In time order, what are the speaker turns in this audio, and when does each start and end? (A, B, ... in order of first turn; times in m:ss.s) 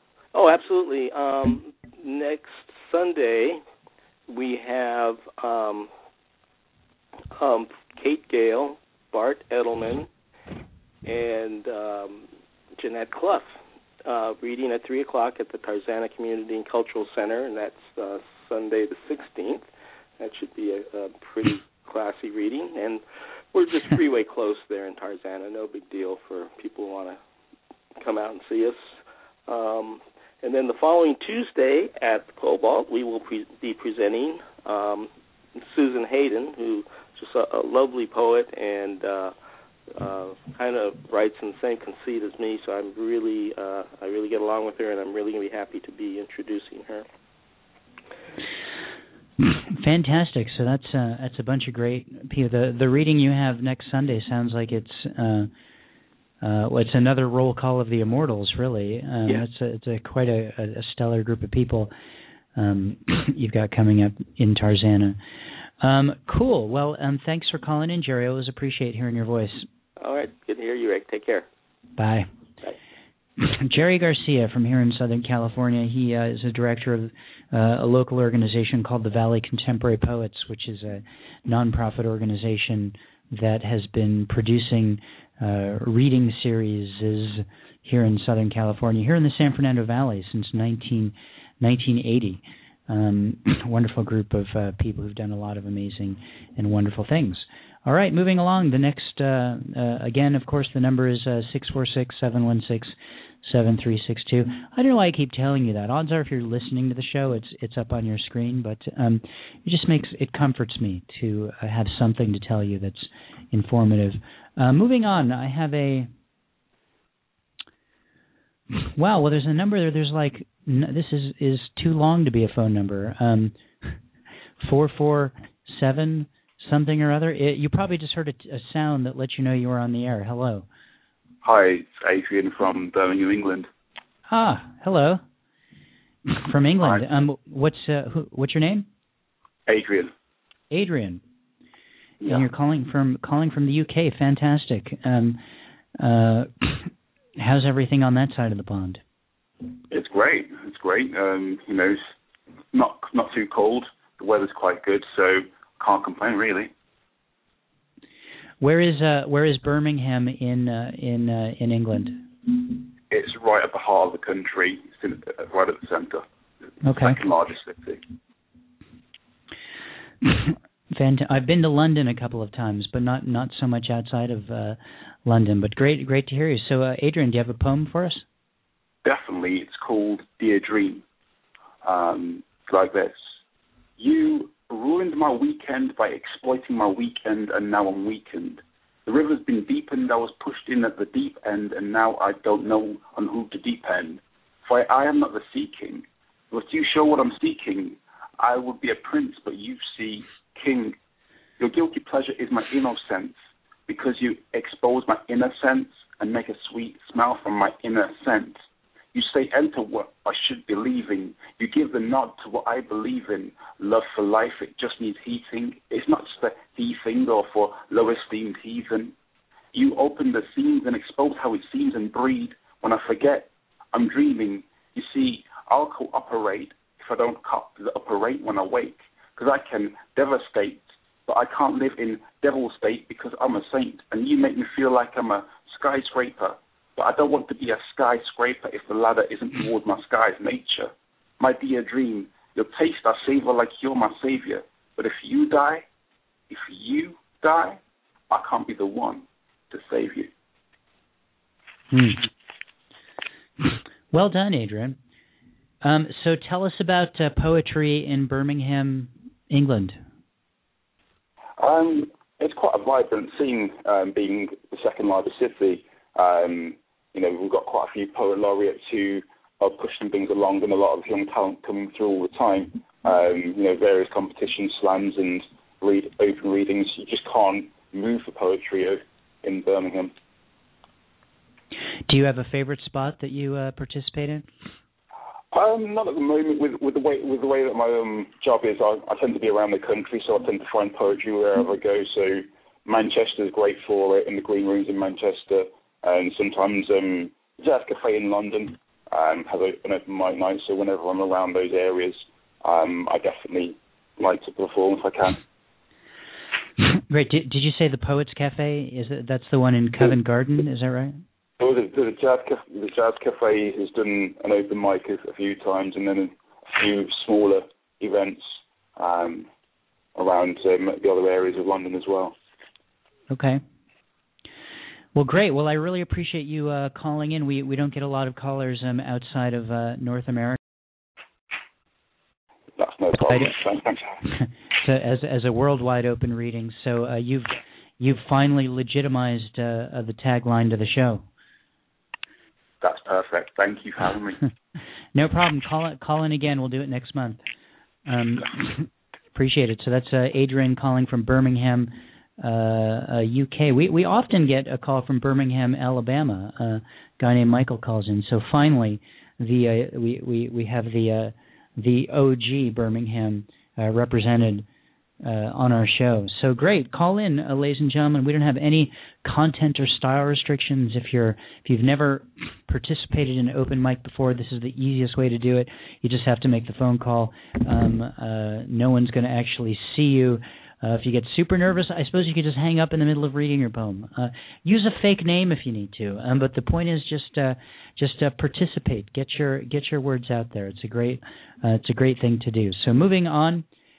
0:00.3-0:03.6 A
0:04.3-0:05.9 A
0:07.3-0:10.1 A
0:11.0-0:12.3 A
0:12.8-0:19.7 A
0:20.2-0:23.0 A
0:23.5-0:27.2 A
0:28.0-0:29.0 A
0:29.5-0:39.3 A
0:40.0-0:47.1 A
0:49.4-0:55.5 B
0:56.4-1:01.9 B
1:02.6-1:05.2 B
1:05.8-1:09.7 B
1:10.0-1:11.5 A
1:12.0-1:12.3 B
1:13.4-1:56.1 B
1:58.7-2:04.0 B
2:04.6-2:10.7 B
2:11.4-2:13.7 C
2:14.3-2:15.2 B
2:16.3-2:18.9 B
2:19.7-2:20.1 C
2:20.7-2:21.2 B
2:22.2-2:25.4 B
2:26.0-2:29.0 B
2:29.9-2:32.0 C
2:32.7-2:36.7 C
2:38.6-2:42.3 B
2:43.1-2:46.2 C
2:46.8-2:47.2 B
2:47.0-2:48.0 C
2:50.2-2:58.2 B
2:59.0-3:01.0 C
3:01.8-3:03.2 C
3:04.0-3:21.0 C
3:21.6-3:28.6 C
3:29.1-3:39.1 C
3:39.7-4:05.8 C
4:06.5-4:07.8 C
4:08.3-4:10.3 C
4:11.9-4:12.3 B
4:13.6-4:15.0 B
4:15.8-4:20.0 B
4:21.6-4:40.1 C
4:42.1-4:44.5 B
4:45.5-5:05.4 C
5:06.8-5:11.2 B
5:11.6-5:19.5 C
5:20.2-5:22.4 C
5:23.3-5:23.6 B
5:25.2-5:30.6 B
5:32.8-5:34.2 C
5:34.2-5:41.2 B
5:42.8-5:44.4 C
5:45.2-5:47.4 B
5:48.1-6:04.6 B
6:05.2-6:33.7 B